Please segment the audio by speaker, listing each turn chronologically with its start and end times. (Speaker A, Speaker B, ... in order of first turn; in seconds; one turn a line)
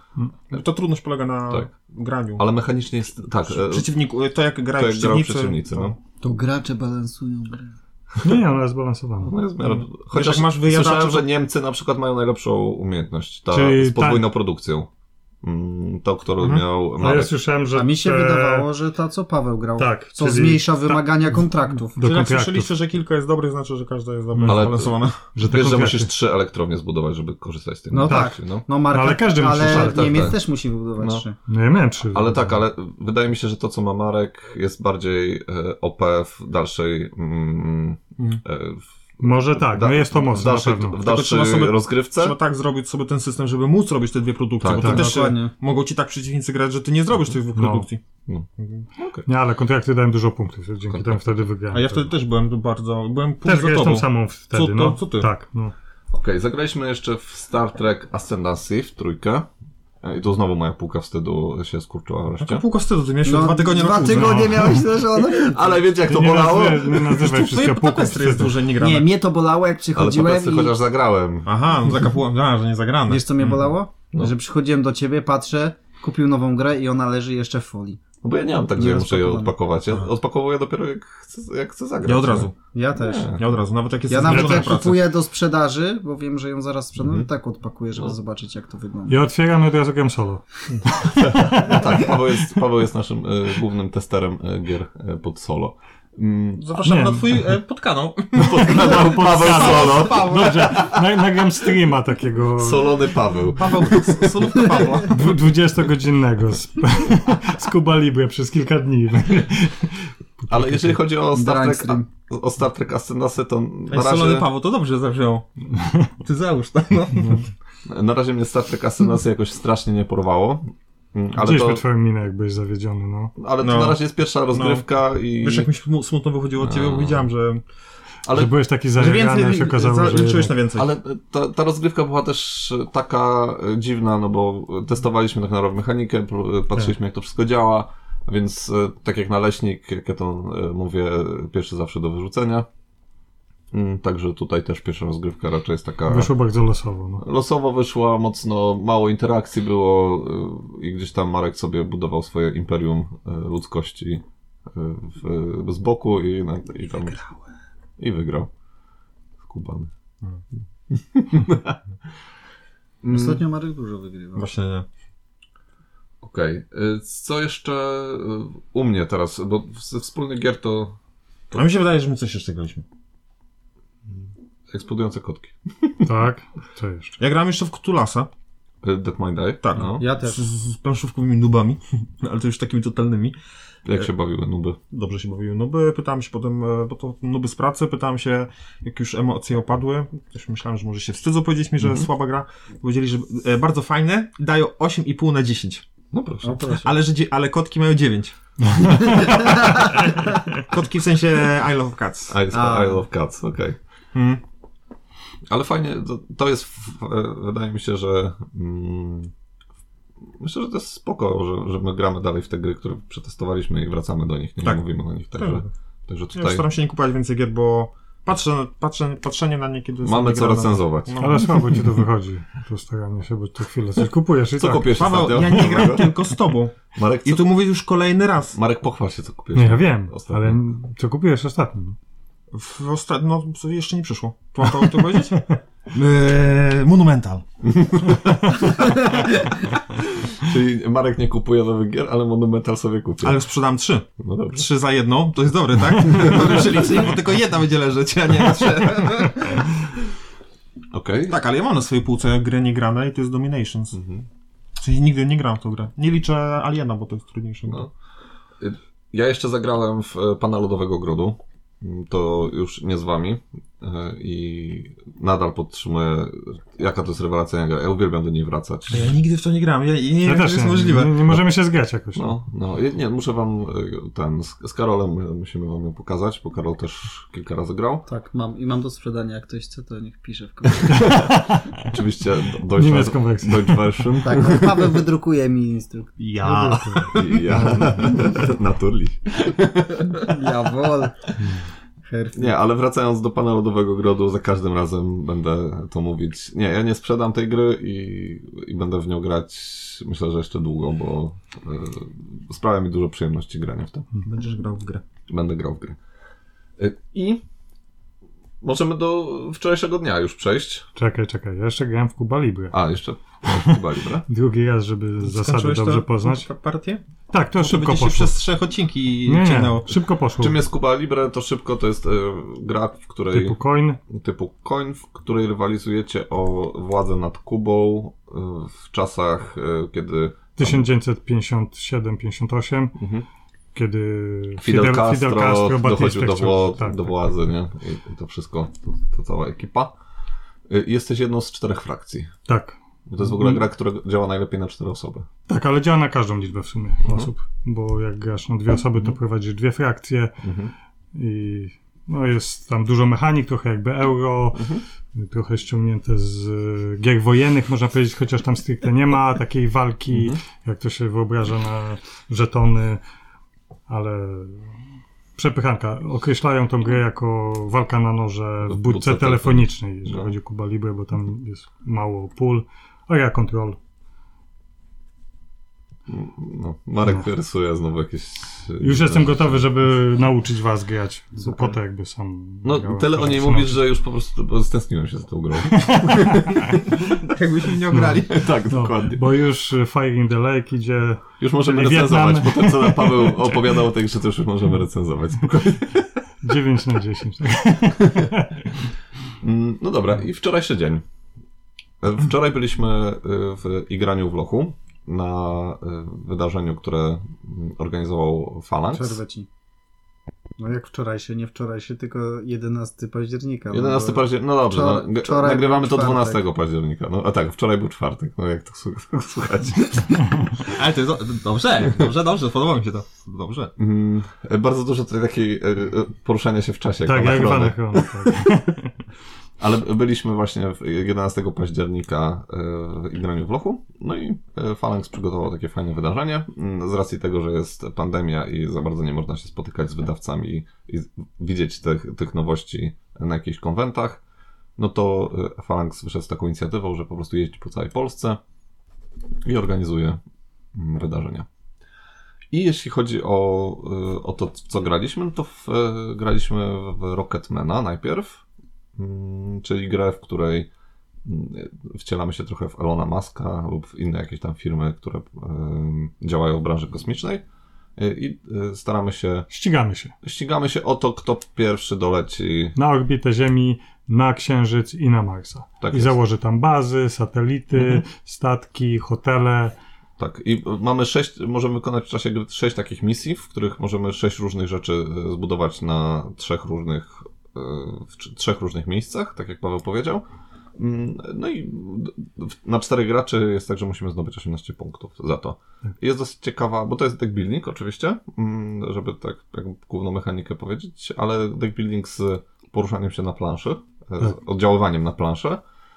Speaker A: 0.5-2.5
Speaker B: 2.4-3.9
Speaker A: 3.5-6.0
Speaker B: 4.7-6.0
Speaker C: 6.2-7.7
Speaker D: 8.2-9.4
Speaker B: 9.2-14.9
Speaker A: 9.6-11.3
Speaker D: 13.5-14.3
Speaker B: 15.4-17.3
Speaker A: 16.4-16.6
Speaker D: 17.0-18.7
Speaker C: 17.7-22.0
Speaker D: 19.8-21.4
Speaker D: 21.9-22.7
Speaker A: 22.0-25.2
Speaker D: 24.3-24.7
Speaker B: 24.4-28.7
Speaker D: 25.3-26.1
Speaker C: 27.9-31.4
Speaker D: 28.1-28.3
Speaker D: 28.9-30.4
Speaker B: 29.6-30.4
Speaker B: 31.0-31.2
Speaker D: 31.5-32.5
Speaker B: 32.0-42.4
Speaker D: 39.2-41.0
Speaker A: 41.0-48.0
Speaker B: 44.6-45.1
Speaker C: 44.7-45.5
Speaker D: 44.8-45.2
Speaker D: 47.5-47.9
Speaker B: 48.3-49.3
Speaker A: 48.6-48.9
Speaker D: 49.3-52.1
Speaker B: 50.9-51.4
Speaker A: 51.7-55.3
Speaker D: 53.5-55.7
Speaker B: 56.1-59.5
Speaker B: 60.0-62.7
Speaker A: 62.4-64.6
Speaker C: 63.2-65.8
Speaker D: 64.0-64.9
Speaker B: 65.4-67.3
Speaker D: 66.1-68.6
Speaker A: 67.1-69.1
Speaker C: 68.8-70.8
Speaker B: 70.0-72.0
Speaker A: 71.5-73.7
Speaker C: 73.1-78.0
Speaker B: 78.2-83.5
Speaker C: 78.7-79.5
Speaker A: 82.0-82.5
Speaker C: 82.7-83.3
Speaker A: 83.3-85.0
Speaker C: 84.1-89.2
Speaker D: 84.2-84.8
Speaker B: 87.0-87.3
Speaker D: 89.1-92.2
Speaker B: 91.1-96.7
Speaker A: 96.6-100.9
Speaker D: 96.8-97.5
Speaker B: 98.3-101.1
Speaker D: 98.6-103.1
Speaker B: 102.6-104.8
Speaker A: 103.6-105.4
Speaker D: 105.0-111.0
Speaker B: 110.5-114.5
Speaker C: 111.3-112.1
Speaker A: 113.9-115.5
Speaker D: 115.8-116.1
Speaker A: 116.2-117.5
Speaker B: 117.9-121.8
Speaker D: 121.4-123.3
Speaker B: 123.4-125.7
Speaker A: 123.6-124.8
Speaker A: 125.4-127.6
Speaker B: 126.6-127.3
Speaker B: 128.2-128.5
Speaker D: 128.3-130.6
Speaker A: 129.0-130.9
Speaker B: 130.7-142.7
Speaker B: 143.7-146.3
Speaker D: 146.1-147.2
Speaker B: 147.2-157.2
Speaker B: 158.0-158.5
Speaker B: 159.4-159.9
Speaker B: 160.9-161.8
Speaker B: 163.0-163.4
Speaker C: 163.1-164.5
Speaker A: 164.4-164.9
Speaker B: 166.2-171.0
Speaker A: 171.5-172.8
Speaker B: 174.1-176.1
Speaker D: 176.0-177.2
Speaker A: 177.2-178.3
Speaker B: 178.8-180.0
Speaker A: 179.6-183.3
Speaker C: 179.9-180.4
Speaker B: 183.9-184.8
Speaker A: 184.9-195.8
Speaker B: 191.8-192.1
Speaker B: 196.1-196.6
Speaker C: 196.4-196.9
Speaker A: 196.8-202.4
Speaker C: 199.1-199.7
Speaker B: 202.3-203.8
Speaker C: 202.5-203.0
Speaker A: 204.1-204.4
Speaker B: 205.5-209.3
Speaker B: 210.3-216.7
Speaker A: 215.3-215.7
Speaker A: 216.3-221.9
Speaker B: 220.0-221.8
Speaker D: 221.2-225.8
Speaker B: 224.6-226.3
Speaker A: 224.9-226.7
Speaker B: 226.9-227.5
Speaker A: 227.2-228.6
Speaker B: 228.6-230.6
Speaker D: 229.6-232.0
Speaker A: 232.5-237.5
Speaker B: 237.6-239.4
Speaker A: 238.0-239.6
Speaker B: 240.0-243.4
Speaker A: 243.2-249.9
Speaker B: 244.2-244.7
Speaker B: 246.1-246.9
Speaker B: 250.9-251.4
Speaker A: 251.3-254.0
Speaker B: 253.9-254.3
Speaker A: 254.8-257.9
Speaker B: 258.6-269.1
Speaker A: 268.9-271.3
Speaker D: 270.2-272.3
Speaker B: 272.1-278.1
Speaker C: 278.1-281.1
Speaker B: 280.8-285.0
Speaker D: 281.0-281.8
Speaker D: 282.8-284.2
Speaker C: 284.2-286.2
Speaker A: 286.2-287.4
Speaker D: 286.4-288.2
Speaker B: 287.1-290.3
Speaker C: 290.2-291.2
Speaker C: 292.0-292.5
Speaker B: 292.3-304.1
Speaker A: 304.2-305.0
Speaker B: 305.3-306.0
Speaker B: 306.8-307.4
Speaker B: 308.6-310.9
Speaker D: 311.0-312.8
Speaker B: 312.7-314.3
Speaker D: 313.5-316.5
Speaker A: 315.2-317.0
Speaker D: 317.3-318.4
Speaker A: 317.6-320.0
Speaker D: 319.3-320.6
Speaker B: 320.4-323.6
Speaker D: 323.3-324.0
Speaker B: 324.1-330.9
Speaker D: 330.6-333.0
Speaker B: 333.0-333.3
Speaker D: 333.8-337.4
Speaker B: 334.6-339.9
Speaker B: 340.7-342.3
Speaker D: 342.5-343.6
Speaker B: 343.1-345.3
Speaker D: 345.5-350.4
Speaker B: 347.1-347.3
Speaker B: 350.4-350.7
Speaker D: 351.1-363.0
Speaker B: 354.5-354.8
Speaker B: 360.1-360.4
Speaker D: 363.9-364.8
Speaker D: 365.4-373.8
Speaker B: 368.6-370.3
Speaker B: 376.1-379.6
Speaker D: 378.8-383.8
Speaker B: 382.6-387.0
Speaker D: 385.7-386.6
Speaker A: 387.0-388.5
Speaker D: 387.9-393.8
Speaker B: 388.3-389.2
Speaker B: 391.4-396.2
Speaker D: 396.4-398.9
Speaker B: 398.0-398.3
Speaker B: 399.4-401.0
Speaker B: 402.0-409.2
Speaker C: 408.9-409.5
Speaker C: 410.6-416.4
Speaker B: 413.7-420.6
Speaker A: 420.6-423.7
Speaker B: 423.8-428.5
Speaker D: 427.1-428.9
Speaker B: 429.6-444.2
Speaker B: 444.8-448.4
Speaker B: 449.4-450.2
Speaker B: 450.7-451.5
Speaker B: 452.5-458.4
Speaker B: 459.0-460.7
Speaker B: 461.2-467.4
Speaker B: 468.0-469.5
Speaker D: 469.5-470.1
Speaker B: 470.2-472.8
Speaker D: 472.8-479.8
Speaker B: 475.8-476.2
Speaker B: 477.7-478.0
Speaker B: 480.2-490.2
Speaker B: 490.8-505.6